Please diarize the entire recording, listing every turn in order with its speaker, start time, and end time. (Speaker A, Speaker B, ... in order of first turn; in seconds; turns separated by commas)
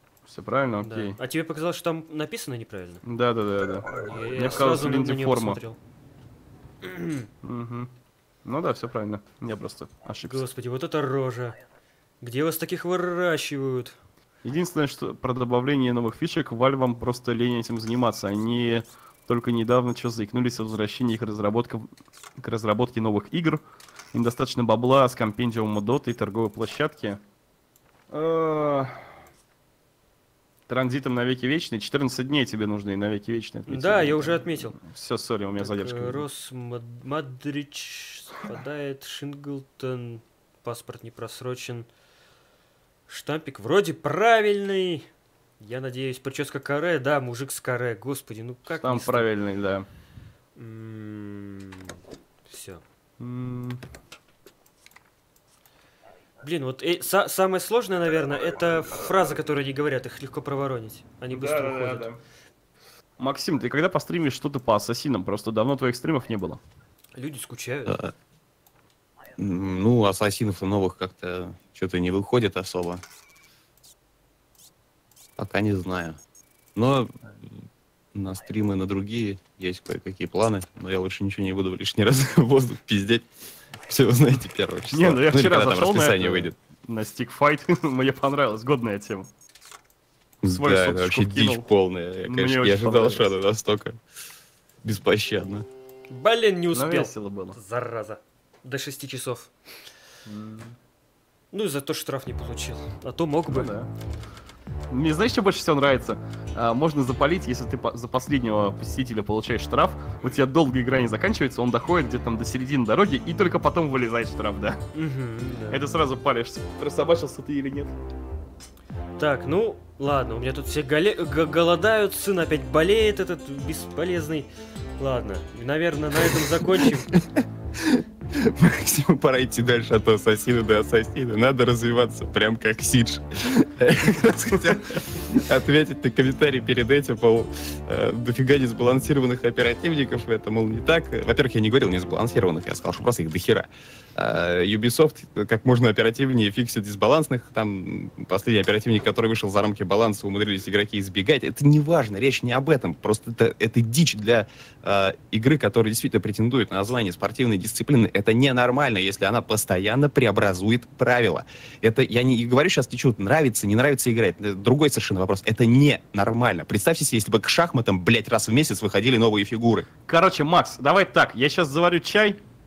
Speaker A: 0.3-1.2, Speaker B: 0.8-3.0, Speaker A: 3.0-5.6, Speaker B: 3.9-5.8, Speaker B: 6.8-7.3, Speaker A: 7.4-7.9, Speaker A: 8.4-10.5, Speaker B: 10.2-11.6, Speaker B: 12.2-14.0, Speaker A: 14.4-27.2, Speaker A: 28.1-29.1, Speaker A: 30.7-36.2, Speaker B: 33.7-34.8, Speaker B: 35.6-41.9, Speaker B: 43.1-45.1, Speaker B: 45.6-49.3, Speaker A: 48.8-49.9, Speaker B: 50.6-52.0, Speaker B: 52.5-52.8, Speaker A: 53.2-53.8, Speaker B: 56.4-62.1, Speaker A: 61.3-62.2, Speaker A: 63.2-66.6, Speaker B: 67.2-68.0, Speaker C: 69.4-73.0, Speaker C: 75.4-76.2, Speaker C: 76.8-77.5, Speaker C: 78.1-83.3, Speaker C: 83.9-86.5, Speaker A: 84.9-89.3, Speaker C: 90.4-94.0, Speaker A: 90.5-91.7, Speaker A: 92.2-93.3, Speaker C: 94.8-95.7, Speaker B: 96.1-99.5, Speaker A: 96.7-97.6, Speaker A: 100.3-100.8, Speaker B: 101.5-103.7, Speaker A: 103.5-103.9, Speaker A: 104.9-114.8, Speaker B: 114.9-115.9, Speaker A: 115.7-117.9, Speaker B: 119.2-124.5, Speaker B: 125.0-127.2, Speaker C: 127.8-169.9, Speaker A: 134.5-134.8, Speaker A: 170.1-172.4